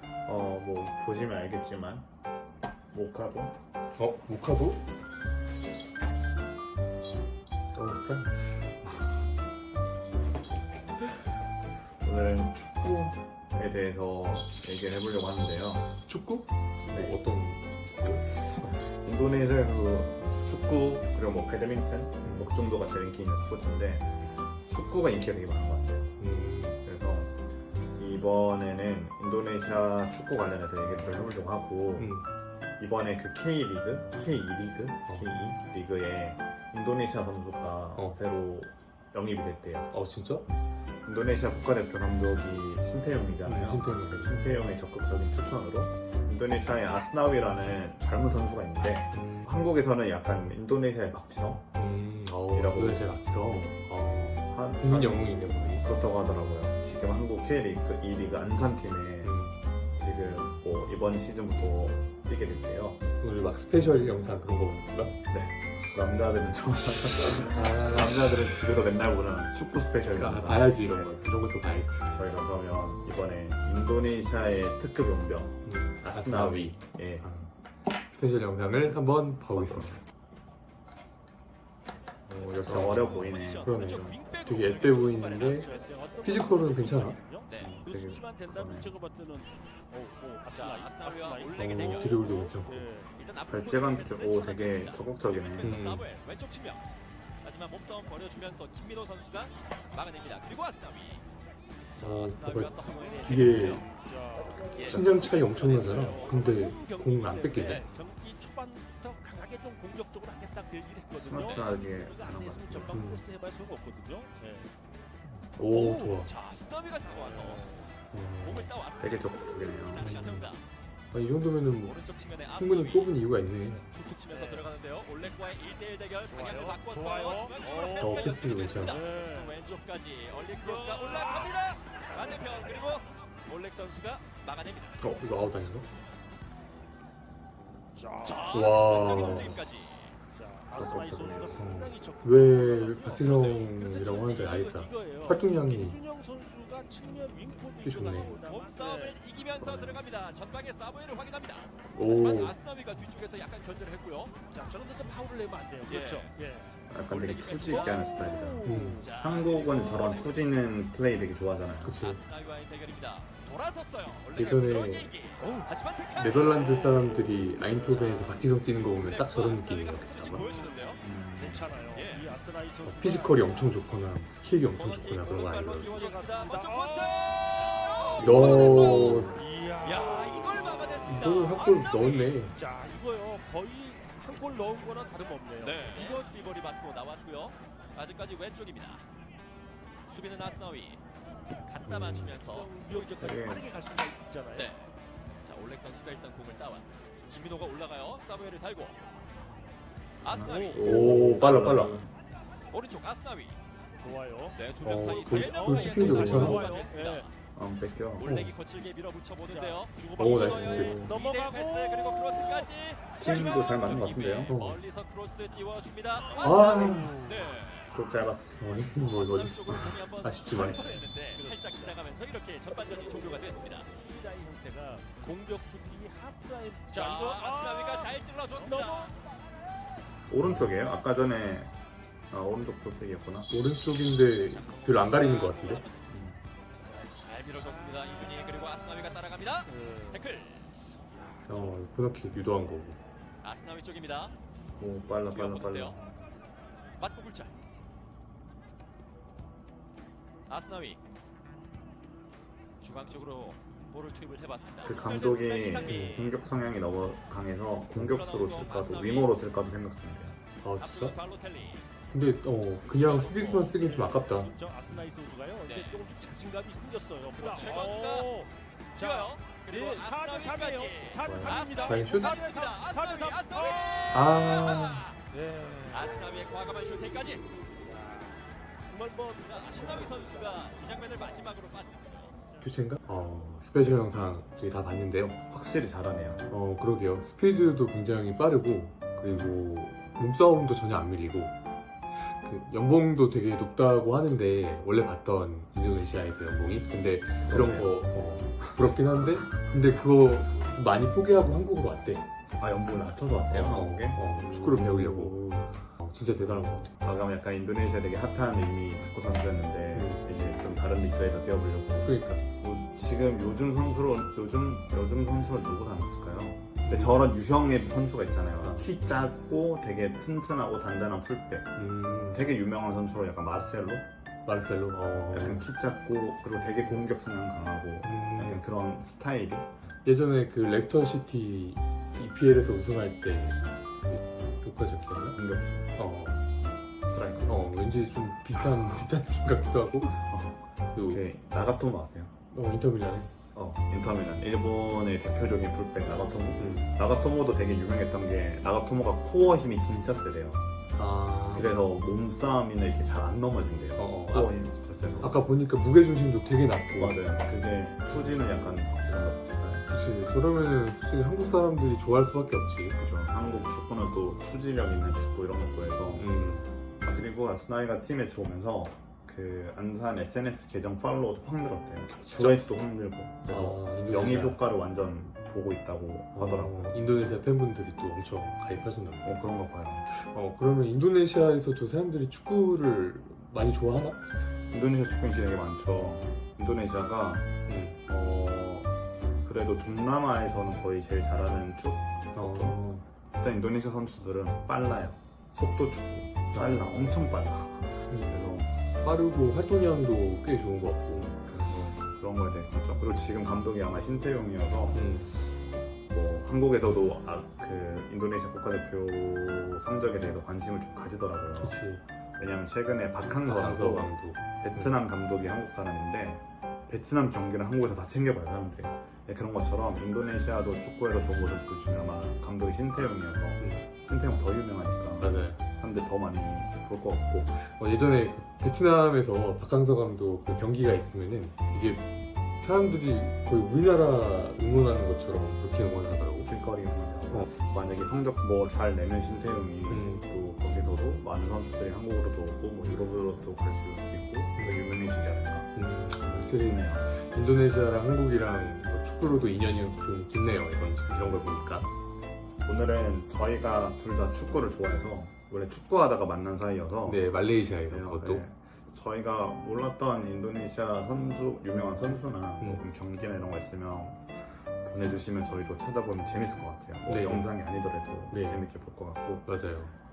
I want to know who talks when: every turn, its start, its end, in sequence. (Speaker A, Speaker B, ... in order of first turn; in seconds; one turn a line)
Speaker A: 0.2-2.1
Speaker A: 2.9-3.5
Speaker B: 4.0-4.8
Speaker B: 7.7-8.6
Speaker A: 12.0-15.9
Speaker B: 16.1-18.6
Speaker A: 16.9-17.2
Speaker A: 18.5-26.1
Speaker B: 22.2-22.5
Speaker B: 26.2-26.8
Speaker A: 26.8-27.3
Speaker A: 27.9-32.1
Speaker B: 32.0-32.2
Speaker A: 32.8-39.9
Speaker B: 35.0-35.3
Speaker B: 39.9-40.5
Speaker A: 41.0-51.6
Speaker B: 43.4-44.4
Speaker B: 49.1-49.6
Speaker B: 51.7-55.8
Speaker A: 52.5-53.8
Speaker A: 54.5-59.4
Speaker B: 59.2-59.5
Speaker A: 59.9-63.0
Speaker B: 63.2-65.1
Speaker A: 65.3-71.3
Speaker B: 67.4-68.2
Speaker B: 70.0-72.2
Speaker A: 72.1-77.3
Speaker B: 75.6-77.5
Speaker B: 78.1-79.9
Speaker A: 79.5-80.1
Speaker A: 82.3-84.2
Speaker C: 82.4-86.2
Speaker B: 82.6-85.7
Speaker D: 85.2-93.1
Speaker B: 86.2-87.2
Speaker A: 87.6-88.9
Speaker C: 90.5-92.4
Speaker B: 91.6-92.9
Speaker C: 93.1-96.9
Speaker A: 93.5-95.8
Speaker B: 95.6-96.1
Speaker C: 97.4-101.2
Speaker C: 102.0-103.9
Speaker B: 102.0-103.9
Speaker D: 102.9-114.7
Speaker C: 104.6-106.4
Speaker B: 104.8-107.8
Speaker A: 104.9-105.2
Speaker A: 111.1-113.0
Speaker B: 112.9-113.2
Speaker B: 115.6-116.3
Speaker D: 115.7-116.1
Speaker C: 116.2-117.7
Speaker D: 117.1-117.9
Speaker B: 118.1-118.7
Speaker C: 118.4-120.6
Speaker A: 119.0-120.1
Speaker B: 120.0-120.5
Speaker B: 121.1-123.8
Speaker C: 121.8-123.2
Speaker C: 123.9-135.0
Speaker D: 124.3-124.7
Speaker D: 126.3-129.6
Speaker B: 128.0-129.0
Speaker D: 130.5-131.6
Speaker D: 132.1-132.7
Speaker B: 135.0-135.9
Speaker D: 137.9-139.6
Speaker C: 138.2-140.1
Speaker B: 138.5-139.6
Speaker D: 140.3-149.2
Speaker A: 140.7-141.6
Speaker B: 141.5-146.0
Speaker C: 143.0-143.7
Speaker B: 147.8-148.3
Speaker C: 148.4-154.3
Speaker A: 149.6-150.1
Speaker B: 151.9-152.6
Speaker D: 154.5-156.7
Speaker C: 155.9-156.3
Speaker A: 156.9-162.0
Speaker C: 157.1-158.0
Speaker D: 157.7-159.3
Speaker B: 158.6-159.1
Speaker C: 159.0-160.3
Speaker B: 161.8-162.2
Speaker C: 162.0-167.0
Speaker B: 164.3-165.1
Speaker D: 165.4-165.7
Speaker B: 166.1-170.5
Speaker C: 167.9-171.0
Speaker D: 170.3-173.8
Speaker A: 171.0-171.7
Speaker C: 171.9-172.4
Speaker B: 172.8-175.9
Speaker D: 174.8-181.6
Speaker C: 175.0-179.1
Speaker A: 178.2-179.4
Speaker B: 178.2-179.4
Speaker C: 179.8-182.4
Speaker B: 181.0-182.6
Speaker D: 182.5-186.3
Speaker C: 185.6-189.0
Speaker C: 190.1-191.0
Speaker C: 191.6-193.3
Speaker B: 191.8-192.4
Speaker D: 192.4-194.7
Speaker A: 193.2-193.7
Speaker C: 194.5-194.9
Speaker C: 195.4-199.0
Speaker C: 200.2-200.8
Speaker A: 200.2-202.1
Speaker D: 200.4-200.8
Speaker B: 200.8-202.0
Speaker C: 201.4-201.7
Speaker C: 202.7-203.6
Speaker D: 203.9-207.3
Speaker C: 204.5-207.3
Speaker B: 204.8-206.7
Speaker A: 206.0-206.8
Speaker A: 207.5-208.3
Speaker C: 208.2-218.0
Speaker B: 208.2-208.5
Speaker D: 209.5-212.7
Speaker B: 210.2-211.1
Speaker A: 210.5-211.2
Speaker A: 213.2-214.5
Speaker B: 214.5-214.8
Speaker D: 216.4-217.2
Speaker B: 216.4-217.2
Speaker A: 216.5-217.1
Speaker A: 217.9-218.6
Speaker B: 218.6-220.8
Speaker C: 218.9-223.9
Speaker D: 220.6-222.1
Speaker D: 222.9-229.1
Speaker C: 226.9-229.2
Speaker A: 230.3-231.7
Speaker B: 230.4-230.7
Speaker A: 232.3-233.5
Speaker B: 233.5-235.8
Speaker C: 234.5-236.0
Speaker A: 236.1-236.4
Speaker D: 236.8-238.2
Speaker C: 237.0-240.7
Speaker D: 239.7-240.3
Speaker D: 241.1-241.8
Speaker B: 241.5-243.0
Speaker C: 243.4-244.3
Speaker A: 244.8-246.1
Speaker C: 245.3-245.9
Speaker C: 247.0-247.5
Speaker C: 250.5-251.0
Speaker C: 252.8-256.3
Speaker A: 254.8-260.4
Speaker B: 255.8-256.2
Speaker C: 258.0-259.3
Speaker B: 260.6-261.1
Speaker C: 260.8-261.9
Speaker B: 262.1-264.5
Speaker C: 262.9-263.5
Speaker D: 262.9-274.1
Speaker C: 265.6-266.0
Speaker C: 267.3-268.3
Speaker C: 268.9-275.1
Speaker A: 271.2-271.6
Speaker B: 271.8-272.4
Speaker B: 274.1-275.1
Speaker D: 275.3-276.5
Speaker C: 275.9-277.4
Speaker D: 277.8-280.8
Speaker C: 279.3-282.3
Speaker B: 282.6-285.4
Speaker A: 285.5-286.4
Speaker B: 286.5-291.5
Speaker B: 292.1-302.2
Speaker A: 297.4-298.1
Speaker A: 302.6-305.7
Speaker B: 303.5-306.9
Speaker A: 306.4-324.0
Speaker B: 309.9-310.2
Speaker B: 312.0-312.4
Speaker B: 316.8-317.2
Speaker B: 318.6-318.9
Speaker B: 321.8-322.4
Speaker B: 324.4-325.7
Speaker A: 325.3-329.7
Speaker B: 328.0-328.6
Speaker B: 330.0-335.4
Speaker A: 335.3-335.9
Speaker B: 335.9-336.4
Speaker A: 337.0-337.9
Speaker B: 337.4-340.2
Speaker A: 340.3-342.3
Speaker B: 340.9-341.2
Speaker B: 342.5-343.3
Speaker A: 343.5-350.6
Speaker B: 346.6-346.9
Speaker B: 350.9-351.7
Speaker A: 351.5-355.4
Speaker B: 354.0-354.5
Speaker B: 355.2-357.2
Speaker A: 357.0-359.9
Speaker B: 359.9-363.7
Speaker A: 362.9-366.4
Speaker B: 366.1-366.6
Speaker A: 367.0-377.1
Speaker B: 372.1-372.6
Speaker B: 373.5-374.6
Speaker B: 376.3-379.4
Speaker A: 379.2-380.1
Speaker B: 380.1-384.2
Speaker A: 384.7-387.5
Speaker B: 387.7-388.0
Speaker A: 388.1-388.9
Speaker A: 389.4-398.7
Speaker B: 392.3-393.0
Speaker B: 396.5-397.2
Speaker B: 398.1-398.4
Speaker B: 399.0-401.6
Speaker A: 401.5-405.1
Speaker B: 404.9-405.3
Speaker A: 406.1-411.8
Speaker B: 411.6-412.0
Speaker A: 412.4-427.5
Speaker B: 413.3-414.9
Speaker B: 425.2-425.6
Speaker B: 427.5-436.5
Speaker A: 436.4-445.7
Speaker B: 439.9-440.3
Speaker B: 444.6-444.9
Speaker B: 445.7-451.9
Speaker A: 446.4-447.0
Speaker A: 452.6-457.2
Speaker B: 457.0-458.4
Speaker A: 457.9-469.4
Speaker B: 467.1-467.5
Speaker B: 468.3-468.6
Speaker B: 469.4-469.9